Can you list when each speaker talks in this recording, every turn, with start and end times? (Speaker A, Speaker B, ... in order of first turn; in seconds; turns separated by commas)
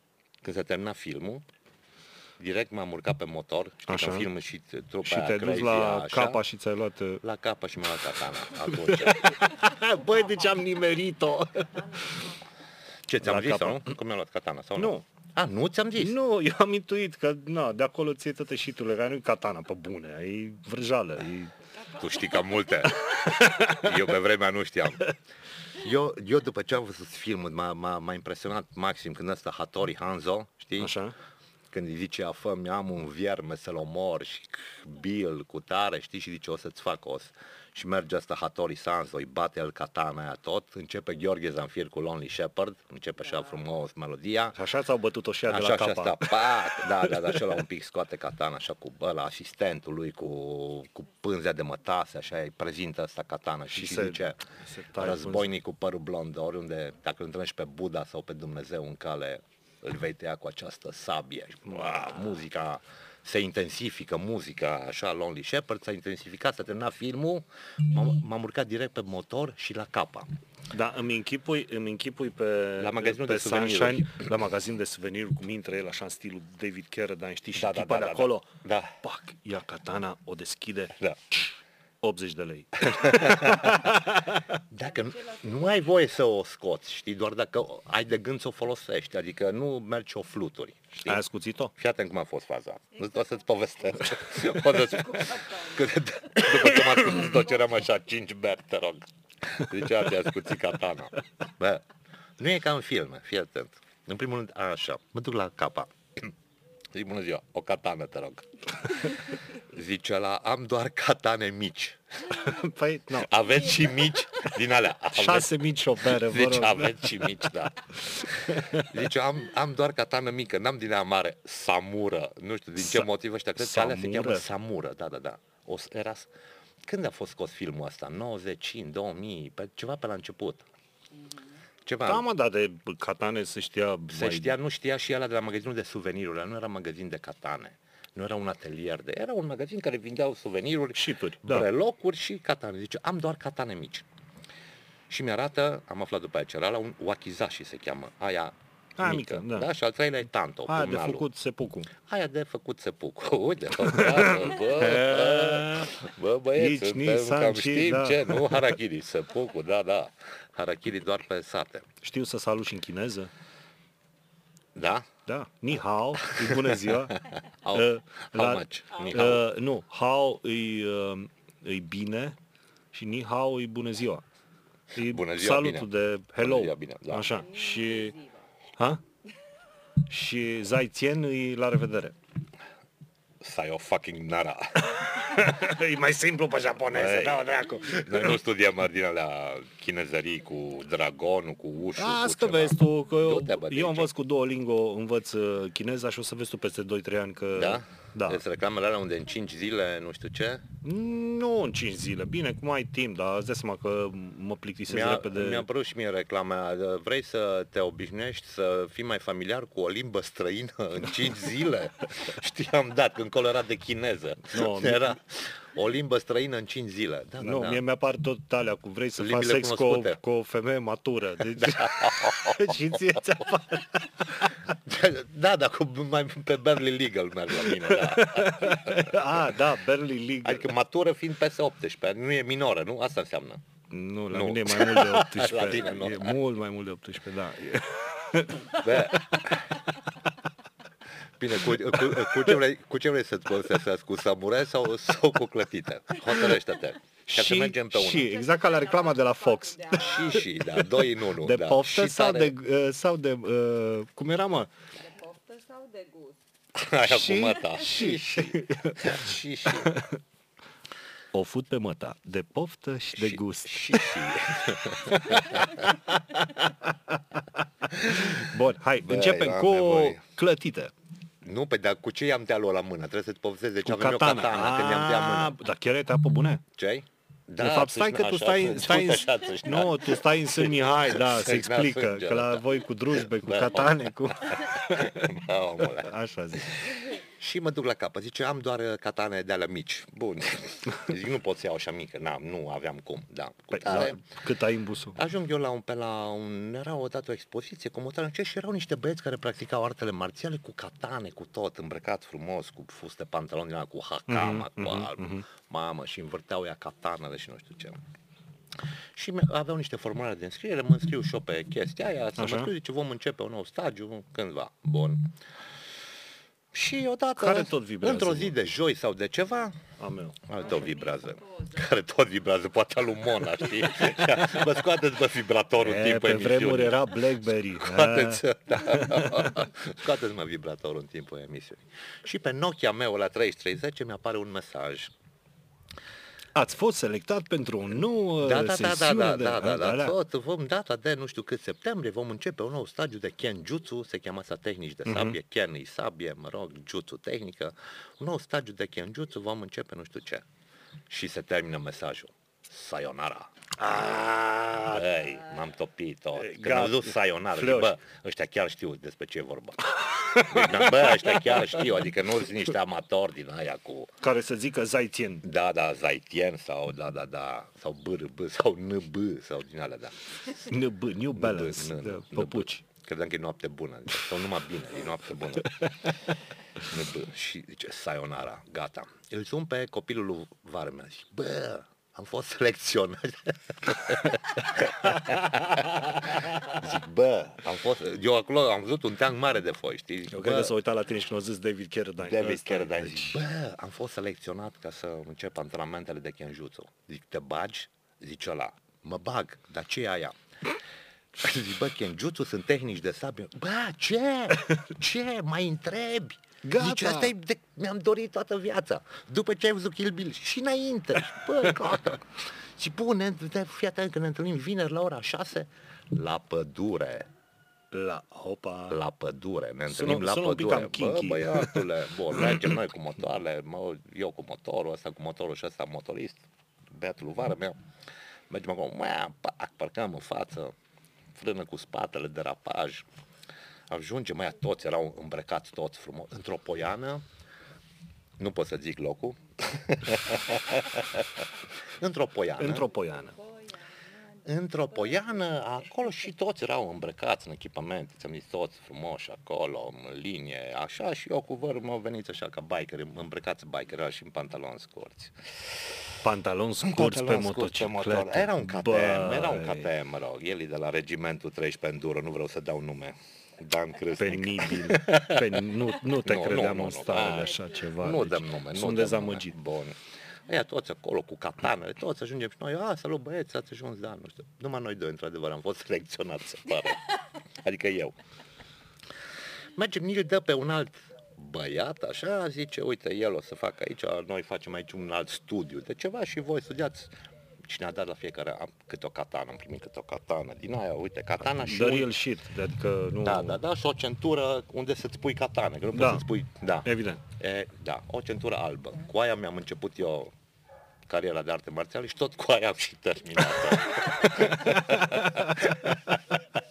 Speaker A: 0.4-1.4, Speaker A: 2.4-6.4, Speaker B: 3.9-4.3, Speaker B: 5.0-7.2, Speaker A: 7.2-9.4, Speaker B: 8.6-12.2, Speaker C: 11.5-12.4, Speaker A: 13.1-16.2, Speaker B: 13.2-13.9, Speaker B: 14.8-15.0, Speaker B: 16.0-21.5, Speaker A: 22.0-25.1, Speaker C: 22.0-22.3, Speaker B: 23.1-23.9, Speaker A: 25.8-31.0, Speaker B: 30.8-31.1, Speaker A: 31.7-44.6, Speaker B: 44.5-46.5, Speaker A: 45.5-54.4, Speaker B: 47.1-47.4, Speaker B: 53.7-55.5, Speaker A: 55.0-70.3, Speaker B: 61.7-62.2, Speaker B: 70.7-78.5, Speaker A: 72.8-74.2, Speaker A: 77.5-79.0, Speaker B: 79.0-81.0, Speaker B: 82.0-84.5, Speaker A: 82.9-84.0, Speaker A: 84.7-91.2, Speaker C: 85.0-85.8, Speaker B: 91.0-91.7, Speaker A: 91.8-101.8, Speaker C: 94.6-96.0, Speaker A: 102.4-106.3, Speaker A: 106.9-112.4, Speaker B: 112.3-113.3, Speaker A: 113.1-126.3, Speaker B: 115.1-117.4, Speaker B: 118.2-118.9, Speaker B: 122.8-124.5, Speaker A: 126.8-130.7, Speaker C: 131.1-131.6, Speaker A: 131.8-132.3, Speaker B: 132.0-134.6, Speaker A: 134.1-144.1, Speaker B: 140.9-141.7, Speaker A: 145.1-151.3, Speaker B: 149.0-149.7, Speaker B: 150.7-151.9, Speaker A: 152.0-161.9, Speaker B: 153.8-155.9, Speaker B: 156.6-158.7, Speaker B: 162.0-163.3, Speaker A: 164.8-165.1, Speaker B: 165.3-167.2, Speaker A: 166.2-169.4, Speaker B: 167.7-172.4, Speaker B: 172.9-174.2, Speaker B: 174.9-178.2, Speaker A: 175.0-177.4, Speaker C: 177.3-178.5, Speaker B: 180.1-182.2, Speaker A: 183.4-185.1, Speaker B: 184.9-188.4, Speaker A: 186.9-194.1, Speaker B: 192.0-198.4, Speaker A: 197.5-200.7, Speaker B: 200.8-205.7, Speaker A: 204.9-217.8, Speaker B: 214.5-215.2, Speaker B: 217.4-224.5, Speaker A: 219.2-220.2, Speaker A: 221.6-223.2, Speaker A: 224.7-229.5, Speaker B: 227.6-230.7, Speaker A: 230.4-233.6, Speaker B: 233.9-239.6, Speaker A: 234.3-236.4, Speaker A: 238.8-239.7, Speaker A: 241.4-248.3, Speaker B: 247.3-254.7, Speaker C: 248.2-250.6, Speaker A: 250.0-252.5, Speaker C: 255.0-256.4, Speaker A: 256.8-259.9, Speaker B: 257.0-260.2, Speaker B: 261.3-264.1, Speaker A: 263.1-265.9, Speaker B: 265.1-270.9, Speaker A: 268.0-268.4, Speaker A: 269.0-270.2, Speaker A: 271.4-275.6, Speaker B: 273.9-276.6, Speaker A: 276.8-294.2, Speaker B: 277.6-285.3, Speaker B: 285.9-286.9, Speaker B: 293.7-295.2, Speaker A: 295.1-308.0, Speaker B: 304.3-305.4, Speaker A: 309.1-315.3, Speaker B: 312.4-312.7, Speaker A: 316.7-319.8, Speaker B: 317.4-318.6, Speaker B: 320.0-320.4, Speaker A: 320.5-335.1, Speaker C: 320.8-321.8, Speaker B: 325.8-329.4, Speaker B: 336.6-340.1, Speaker A: 338.4-350.4, Speaker B: 345.1-345.4, Speaker A: 351.1-353.5, Speaker B: 353.8-355.1, Speaker A: 354.9-359.9, Speaker B: 356.4-358.0, Speaker B: 360.0-361.8, Speaker A: 360.4-364.1, Speaker B: 364.2-365.5, Speaker A: 365.4-370.2, Speaker B: 370.6-372.8, Speaker A: 371.4-376.1, Speaker A: 376.8-390.8, Speaker B: 385.2-385.9, Speaker B: 390.3-393.4, Speaker A: 392.2-400.4, Speaker A: 401.4-417.3, Speaker B: 406.6-407.3, Speaker B: 417.9-419.0, Speaker A: 418.9-427.8, Speaker B: 419.9-422.7, Speaker A: 428.5-430.7, Speaker A: 431.4-433.1, Speaker A: 433.9-437.2, Speaker A: 438.4-442.9, Speaker B: 442.6-443.4, Speaker C: 443.0-445.8, Speaker A: 444.4-455.9, Speaker B: 456.2-459.9, Speaker A: 456.8-478.2, Speaker B: 464.2-469.6, Speaker A: 479.8-487.1, Speaker A: 487.6-492.1, Speaker B: 491.4-493.6, Speaker A: 493.2-500.3, Speaker B: 495.9-496.2, Speaker B: 496.8-497.2, Speaker A: 501.1-506.1, Speaker B: 504.6-505.6